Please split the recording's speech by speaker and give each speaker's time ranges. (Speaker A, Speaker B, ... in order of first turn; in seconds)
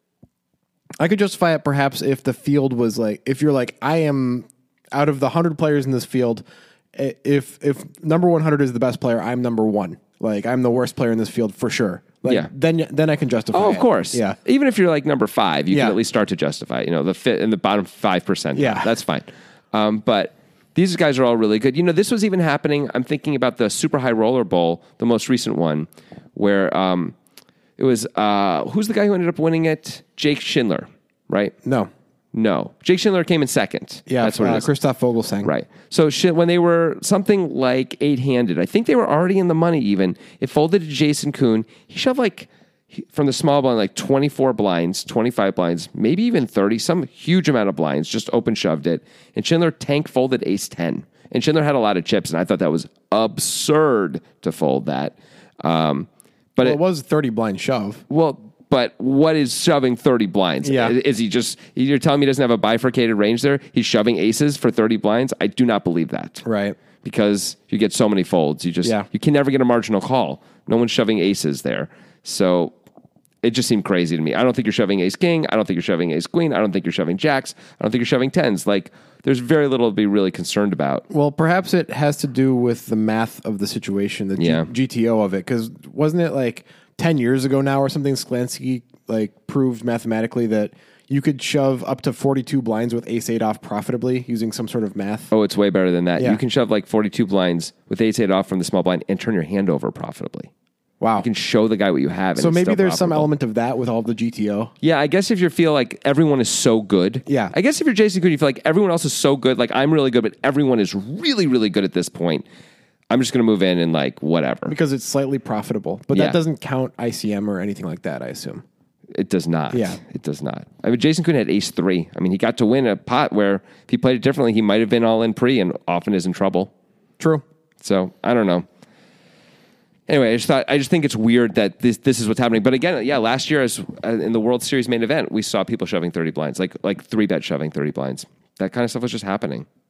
Speaker A: 1.0-14.4, 15.7-16.0, 18.6-18.9, 31.6-31.9, 34.1-35.5, 56.6-58.0, 60.6-61.0, 66.4-66.8, 81.1-95.3, 101.0-101.3, 102.4-104.7, 107.3-107.5, 114.7-118.6, 119.7-120.0, 127.2-127.4
Speaker B: 13.5-27.2, 27.8-31.6, 32.3-34.7, 35.4-56.8, 58.1-66.4, 67.0-72.8, 73.4-81.0, 84.4-84.7, 95.3-100.5, 101.2-103.3, 104.8-112.5, 113.1-114.7, 116.1-116.4, 119.2-126.7, 127.8-128.7, 130.1-139.7